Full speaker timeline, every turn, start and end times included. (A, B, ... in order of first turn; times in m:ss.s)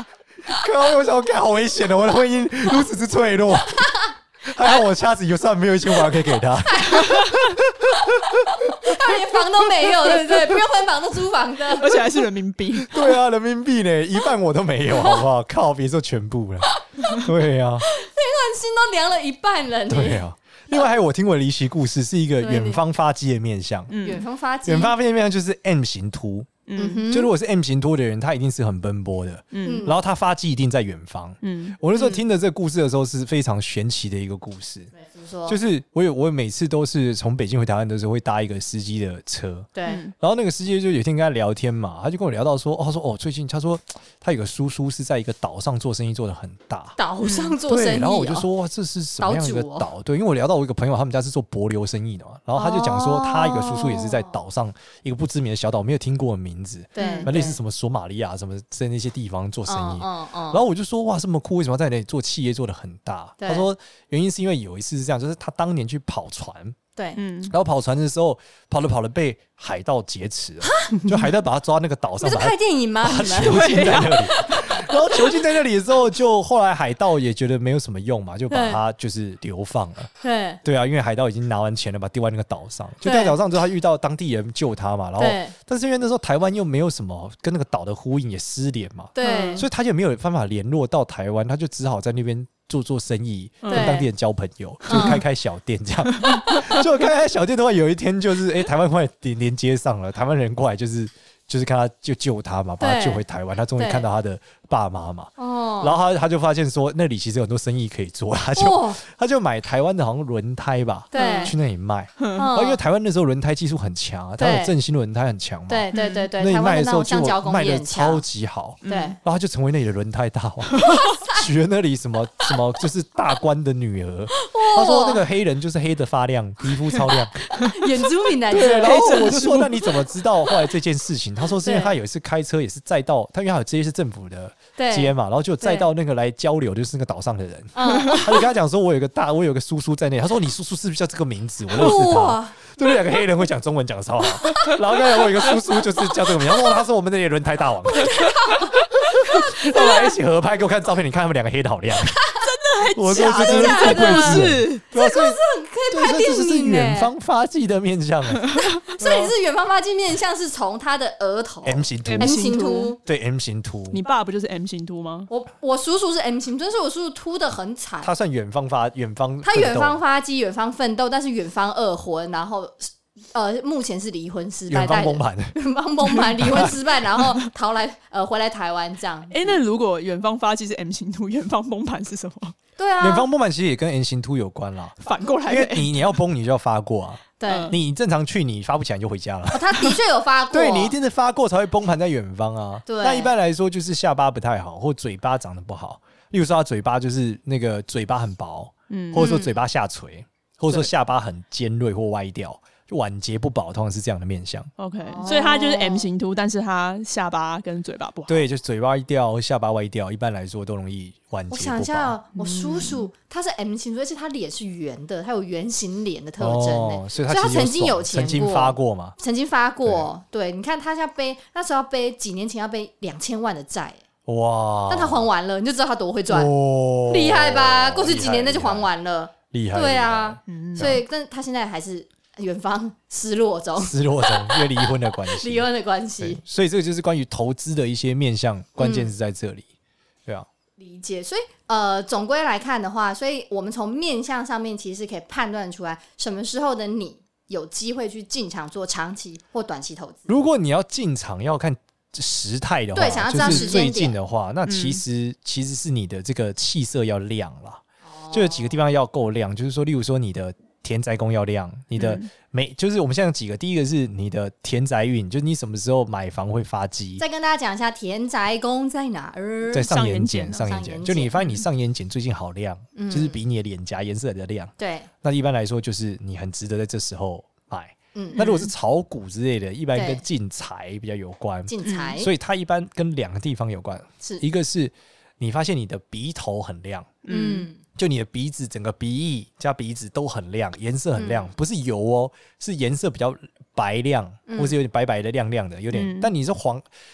0:00.5-0:09.1 A
0:06.7-0:07.2 B
0:07.0-0:07.4 C
0:08.6-0:12.1 B
0:11.7-0:12.9 C
0:12.9-0:17.9 A
0:17.9-0:20.2 B
0:19.9-0:23.9 A
0:22.4-0:22.8 B
0:23.9-0:24.2 C
0:24.0-0:24.9 B
0:24.6-0:26.5 A
0:26.7-0:27.0 C
0:26.8-0:27.3 B
0:27.1-0:34.9 A
0:29.5-0:29.9 C
0:29.6-0:30.0 B
0:31.4-0:31.8 C
0:31.9-0:32.2 B
0:34.9-0:35.6 B
0:35.5-0:47.0 A
0:39.8-0:40.0 B
0:39.8-0:40.1 C
0:47.0-0:48.5 B
0:47.2-0:47.6 C
0:47.6-1:06.8 A
0:49.2-0:49.9 B
0:52.5-0:54.3 B
0:57.0-0:57.6 B
0:57.0-0:57.3 C
0:59.7-1:00.6 B
1:03.4-1:03.7 B
1:07.2-1:07.5 C
1:07.5-1:20.1 A
1:10.6-1:11.0 B
1:12.2-1:13.6 B
1:13.4-1:15.3 C
1:18.5-1:18.8 B
1:20.2-1:20.6 B
1:20.6-2:07.6 A
1:23.0-1:23.4 B
1:25.2-1:25.5 B
1:29.2-1:29.6 B
1:29.2-1:29.6 C
1:33.6-1:34.0 C
1:33.7-1:34.1 B
1:34.9-1:35.2 B
1:34.9-1:35.2 C
1:36.1-1:36.4 C
1:42.8-1:43.2 B
1:43.8-1:44.0 B
1:45.4-1:46.0 B
1:48.6-1:49.0 B
1:51.1-1:51.6 B
1:51.2-1:51.5 C
1:52.2-1:52.4 C
1:52.4-1:52.8 B
1:54.4-1:54.7 B
1:55.7-1:58.2 B
1:55.9-1:56.3 C
1:58.8-1:59.2 C
1:58.8-1:59.2 B
2:00.9-2:01.4 B
2:04.3-2:05.2 B
2:07.6-2:09.4 B
2:08.5-2:28.3 A
2:08.5-2:09.9 C
2:11.6-2:11.9 B
2:14.8-2:15.9 B
2:17.7-2:18.4 B
2:18.0-2:18.2 C
2:21.8-2:22.6 B
2:27.9-2:28.8 B
2:28.2-2:29.1 C
2:29.1-2:32.2 A
2:29.4-2:30.1 B
2:32.1-2:32.4 B
2:32.4-2:34.8 C
2:33.0-2:39.3 A
2:33.1-2:37.1 B
2:38.4-2:38.9 C
2:38.8-2:43.0 B
2:41.6-2:42.4 A
2:42.0-2:42.9 C
2:43.0-2:44.0 A
2:43.9-2:45.3 C
2:45.3-2:48.1 B
2:48.0-2:50.0 A
2:49.4-2:59.6 B
2:54.7-2:55.6 A
2:56.4-2:56.8 A
2:59.3-3:02.6 C
3:02.8-3:03.3 B
3:03.0-3:10.0 A
3:05.0-3:06.0 C
3:07.4-3:07.8 B
3:07.5-3:07.8 C
3:09.5-3:11.0 B
3:10.5-3:24.7 A
3:12.8-3:13.3 B
3:18.9-3:19.3 C
3:19.1-3:19.6 B
3:24.8-3:28.5 C
3:25.1-3:26.1 B
3:28.3-3:32.2 A
3:31.5-3:44.0 B
3:32.3-3:33.0 C
3:36.4-3:39.1 A
3:44.2-3:45.3 A
3:44.9-3:46.5 B
3:46.3-3:48.9 A
3:47.0-3:56.4 B
3:49.5-3:51.0 A
3:50.5-3:51.0 C
3:53.8-3:55.7 A
3:56.2-3:59.7 A
3:58.8-3:59.1 B
4:00.8-4:10.3 B
4:10.3-4:27.2 A
4:12.9-4:14.2 B
4:13.4-4:13.8 C
4:14.6-4:15.0 C
4:18.1-4:18.8 B
4:22.0-4:22.3 C
4:27.2-4:29.9 B
4:29.7-4:47.2 A
4:29.9-4:30.6 C
4:30.5-4:31.3 B
4:31.4-4:31.6 C
4:32.9-4:33.4 B
4:34.8-4:35.1 B
4:38.1-4:38.6 B
4:38.4-4:38.7 C
4:39.9-4:40.2 B
4:41.7-4:42.3 B
4:41.8-4:42.1 C
4:47.2-4:47.7 C
4:47.3-4:47.8 B
4:47.9-4:56.8 A
4:51.2-4:51.5 B
4:54.5-4:54.8 B
4:55.9-4:56.3 C